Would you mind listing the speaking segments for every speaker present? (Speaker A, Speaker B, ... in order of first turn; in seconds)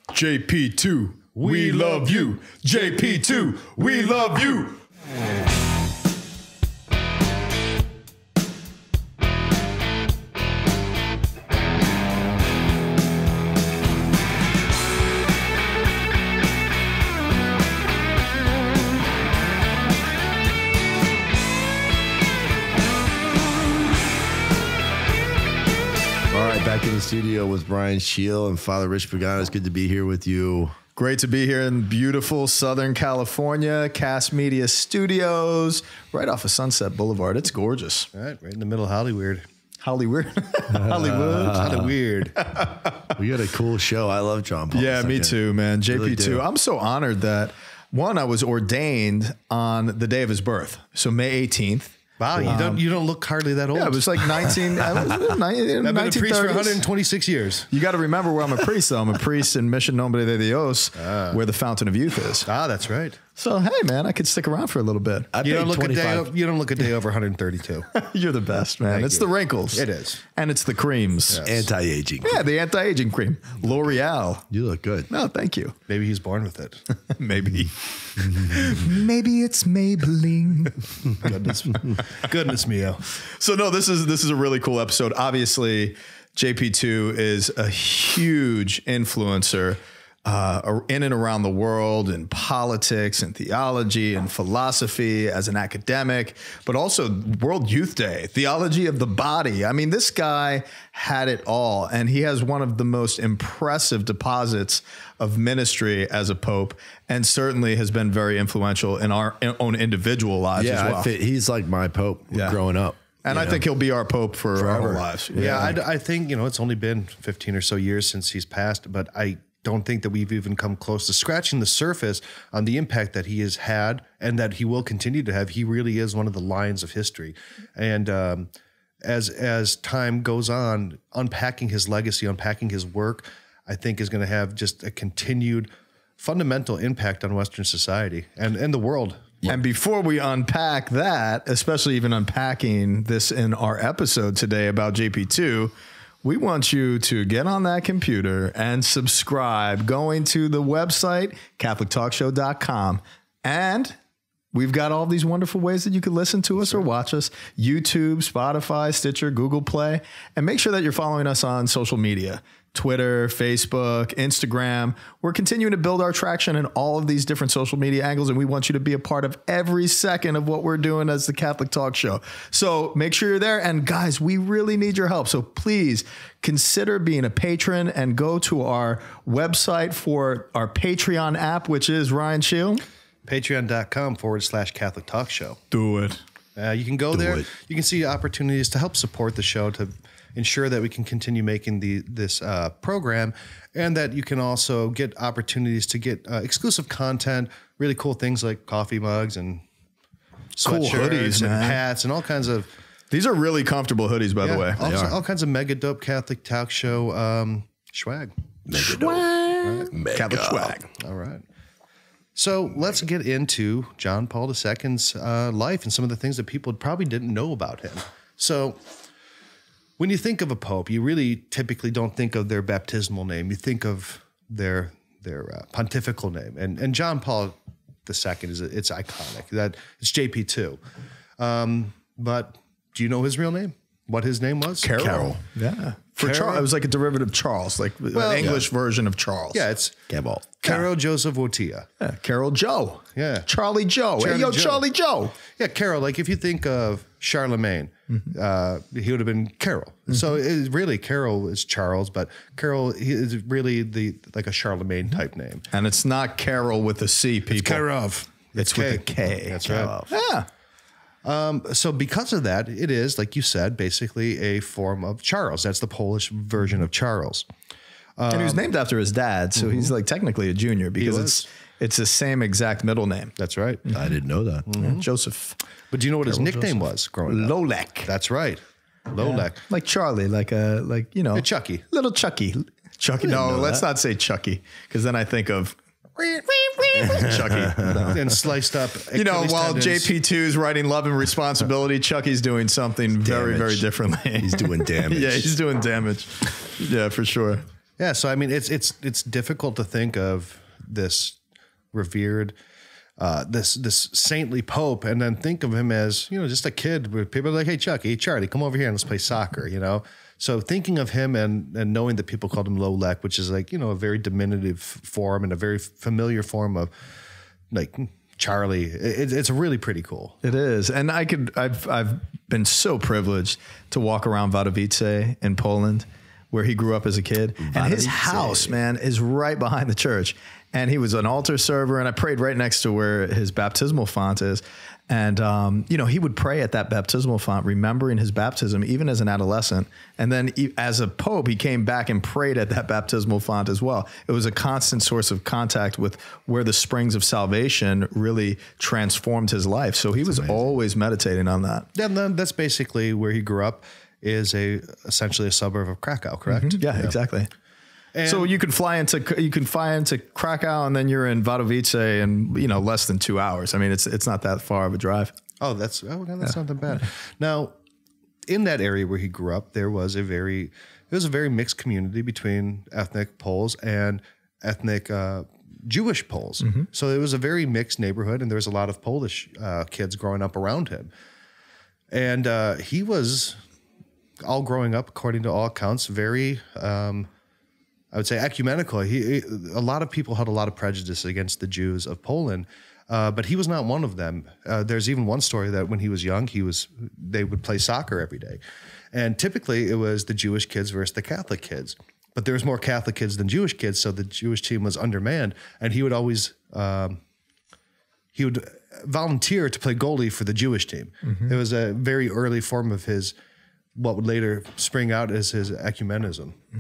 Speaker A: 0.1-4.8, 31.0-38.1, 39.8-41.8, 42.4-43.2, 44.7-52.8, 53.7-56.8, 57.7-62.5, 63.4-65.3, 67.9-69.8, 70.4-71.4, 72.2-74.5, 75.1-75.8, 76.9-81.3, 83.2-111.1, 112.3-112.6, 113.2-115.8, 139.5-145.7, 146.2-154.0, 154.5-182.8, 185.7-186.2, 200.6-201.8, 203.1-204.8, 208.8-210.9, 234.8-239.6, 242.0-245.3, 255.7-257.8, 258.6-260.5, 268.3-273.3, 274.8-275.6, 276.3-276.7, 277.3-278.1, 279.2-285.8, 286.5-288.4, 289.1-297.6, 320.4-351.9, 356.5-357.5, 358.2-365.3
Speaker B: 1.4-4.1, 38.1-39.4, 41.5-42.4, 52.2-54.5, 55.8-57.7, 61.0-61.4, 62.5-63.2, 65.4-67.9, 68.9-70.2, 71.3-71.6, 75.9-76.8, 81.2-83.0, 115.4-128.5, 129.0-139.4, 183.3-185.6, 186.6-199.7, 200.6-202.7, 204.4-208.3, 209.6-209.9, 211.0-211.4, 212.3-218.8, 220.0-230.8, 231.4-235.3, 236.2-236.6, 238.1-238.6, 239.5-240.0, 240.6-241.9, 243.2-243.5, 244.2-244.8, 245.5-255.7, 257.5-259.9, 261.2-267.5, 268.2-268.6, 271.0-271.4, 273.4-273.8, 274.7-275.1, 275.9-279.6, 281.4-281.9, 286.2-286.4, 288.1-290.1, 298.0-301.4, 301.9-302.5, 303.2-316.9, 317.7-320.4, 351.9-357.1, 358.1-358.5, 365.6-367.8, 368.5-381.1, 382.1-383.6, 384.4-387.3, 388.1-398.6, 399.1-407.2, 408.3-413.4, 414.0-416.6
Speaker C: 26.3-30.8, 40.7-41.9, 43.1-45.4, 45.9-46.5, 65.3-66.3, 71.4-72.4, 74.5-75.1, 110.6-113.6, 114.6-115.7, 187.1-187.5, 204.8-205.2, 208.7-209.3, 209.9-210.8, 238.4-238.7, 240.1-240.6, 259.6-260.1, 273.9-274.7, 283.2-283.8, 287.1-288.1, 293.2-293.9, 294.4-295.5, 327.6-328.8